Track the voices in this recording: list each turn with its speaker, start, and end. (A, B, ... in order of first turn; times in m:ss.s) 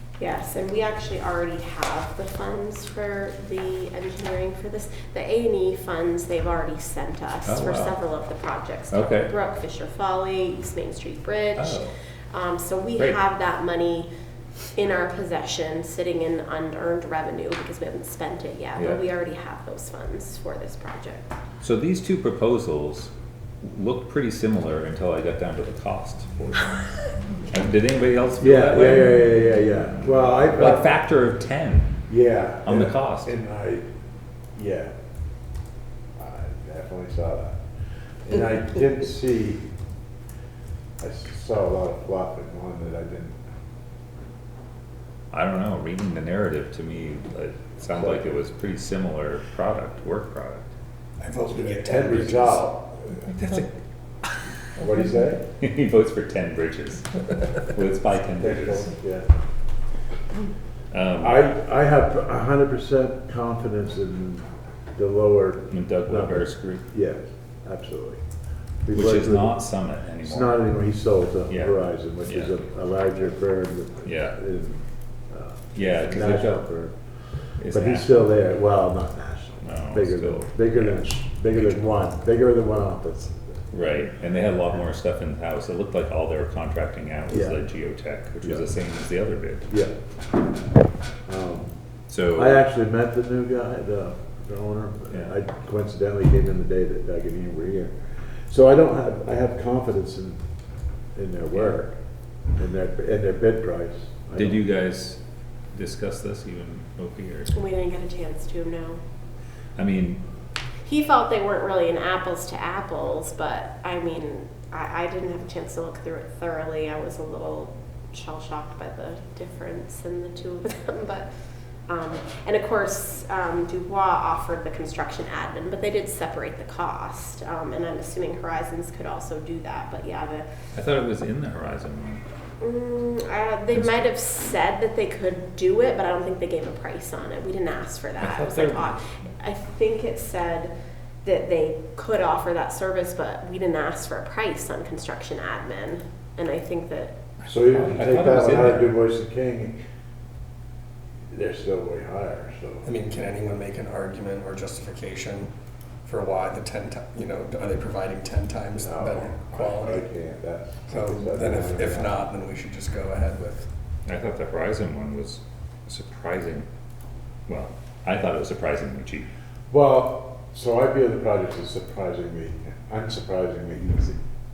0:00.2-0:11.8 A
0:07.5-0:08.0 B
0:08.9-0:09.3 B
0:11.6-0:11.9 B
0:12.3-0:14.1 A
0:14.7-0:21.3 A
0:18.8-0:19.0 B
0:21.6-0:26.8 B
0:27.5-0:29.2 B
0:28.4-0:30.9 C
0:30.0-0:31.9 B
0:32.1-0:33.9 C
0:32.6-0:33.3 B
0:34.6-0:34.9 C
0:36.2-0:37.6 C
0:38.2-0:39.7 C
0:41.0-0:43.4 C
0:45.3-0:50.7 B
0:47.9-0:48.4 C
0:51.2-0:52.8 D
0:51.6-0:53.4 C
0:53.3-0:53.7 B
0:54.8-0:55.4 C
0:55.6-0:58.9 B
0:58.4-0:59.3 C
1:00.9-1:01.4 B
1:01.2-1:08.2 C
1:05.7-1:06.9 B
1:08.8-1:09.6 C
1:08.9-1:10.6 B
1:10.2-1:17.0 C
1:11.5-1:12.5 B
1:14.0-1:14.3 B
1:15.8-1:16.6 B
1:17.6-1:18.3 B
1:17.7-1:23.5 C
1:19.6-1:21.8 B
1:23.7-1:29.7 B
1:27.3-1:27.6 C
1:28.4-1:28.7 C
1:31.2-1:31.7 C
1:32.1-1:32.6 B
1:32.4-1:37.9 C
1:38.5-1:40.4 C
1:41.1-1:42.0 C
1:42.6-1:44.6 C
1:44.3-1:45.2 B
1:45.7-1:47.6 B
1:47.5-1:49.0 A
1:49.8-1:50.2 B
1:50.8-2:01.3 A
2:01.9-2:10.5 A
2:10.7-2:12.2 B
2:12.6-2:20.7 A
2:13.7-2:14.1 B
2:18.2-2:18.9 B
2:21.2-2:27.2 A
2:27.4-2:29.0 B
2:27.5-2:29.8 C
2:31.3-2:32.9 C
2:32.8-2:35.5 D
2:36.0-2:40.1 D
2:38.8-2:42.2 C
2:40.9-2:43.7 D
2:44.1-2:46.7 B
2:47.5-2:49.3 B
2:49.7-2:54.2 C